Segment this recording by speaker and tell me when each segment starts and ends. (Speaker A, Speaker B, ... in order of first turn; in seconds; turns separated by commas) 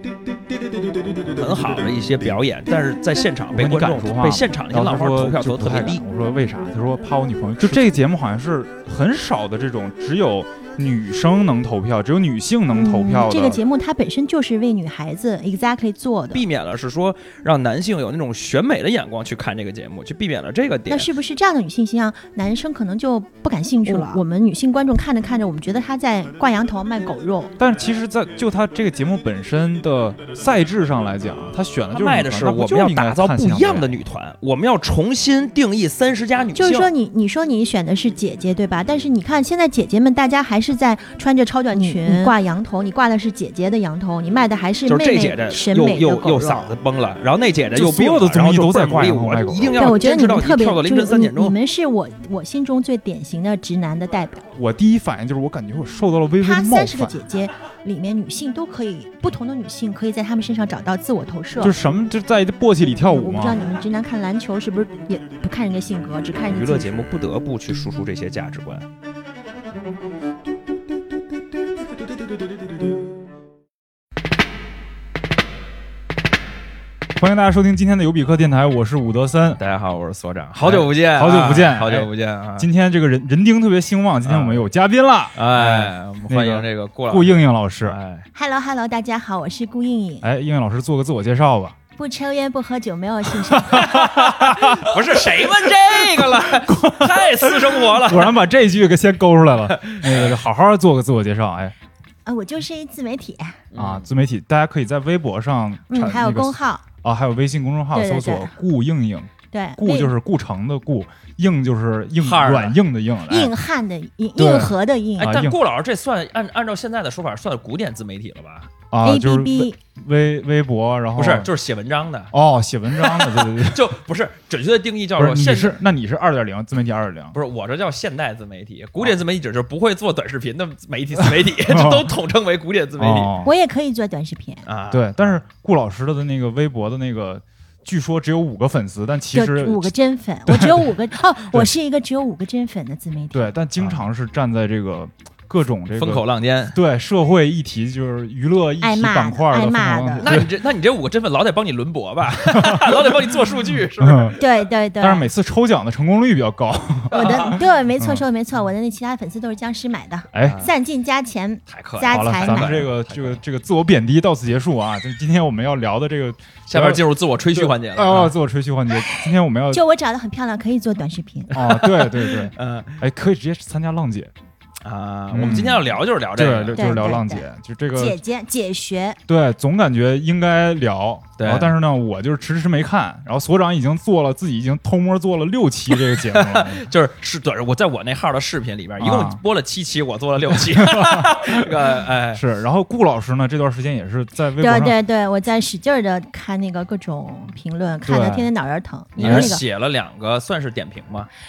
Speaker A: 1.3-6.0, Speaker B: 3.5-13.6, Speaker C: 12.7-16.4, Speaker A: 16.3-21.1, Speaker C: 20.9-27.5, Speaker B: 27.6-34.0, Speaker A: 31.9-36.9, Speaker C: 36.5-46.7, Speaker A: 41.8-42.3, Speaker A: 44.9-51.6, Speaker B: 47.7-49.8, Speaker C: 49.8-54.4, Speaker B: 54.5-57.2, Speaker C: 56.4-61.7, Speaker B: 61.6-63.6, Speaker C: 63.1-67.0, Speaker A: 66.5-68.8, Speaker B: 77.2-79.6, Speaker A: 79.6-82.7, Speaker B: 80.6-88.0, Speaker A: 84.2-84.6, Speaker A: 85.3-88.2, Speaker C: 88.3-90.3, Speaker B: 90.2-91.8, Speaker C: 92.0-94.1, Speaker B: 93.4-101.7, Speaker A: 93.8-98.4, Speaker A: 99.7-100.4, Speaker C: 102.2-103.6, Speaker A: 103.7-104.1, Speaker B: 103.7-113.5, Speaker C: 105.9-106.8, Speaker C: 107.9-108.5, Speaker C: 109.5-110.1, Speaker A: 112.2-112.8, Speaker C: 113.3-115.3, Speaker B: 114.4-115.5, Speaker A: 115.2-118.7, Speaker B: 118.9-121.5, Speaker C: 119.0-119.8, Speaker A: 121.2-122.3, Speaker B: 122.3-123.9, Speaker A: 122.9-125.8, Speaker B: 125.2-127.3, Speaker A: 127.3-133.3, Speaker B: 131.2-132.2, Speaker B: 133.0-133.5, Speaker C: 133.4-134.6, Speaker A: 134.6-135.4, Speaker B: 134.9-139.9, Speaker C: 139.3-143.5, Speaker B: 140.5-140.9, Speaker B: 143.3-150.5, Speaker A: 143.8-144.0, Speaker A: 145.9-146.8, Speaker C: 148.8-150.3, Speaker A: 150.2-154.4, Speaker B: 152.5-153.4, Speaker B: 154.0-154.4, Speaker C: 154.4-155.3, Speaker B: 155.0-158.2, Speaker A: 157.1-157.6, Speaker C: 157.1-162.8, Speaker B: 160.3-160.6, Speaker A: 160.4-160.7, Speaker A: 161.7-163.4, Speaker B: 162.1-169.8, Speaker A: 166.7-168.3, Speaker C: 169.0-171.8, Speaker B: 171.5-174.3, Speaker A: 171.5-173.0, Speaker A: 174.8-177.0, Speaker B: 175.3-178.2, Speaker C: 176.7-179.2, Speaker B: 179.3-186.9, Speaker A: 181.4-181.7, Speaker A: 185.9-192.4, Speaker B: 189.0-189.4, Speaker B: 190.5-191.7, Speaker B: 192.3-195.0, Speaker C: 194.6-199.6, Speaker B: 198.0-198.5, Speaker A: 199.2-201.3, Speaker B: 199.2-199.5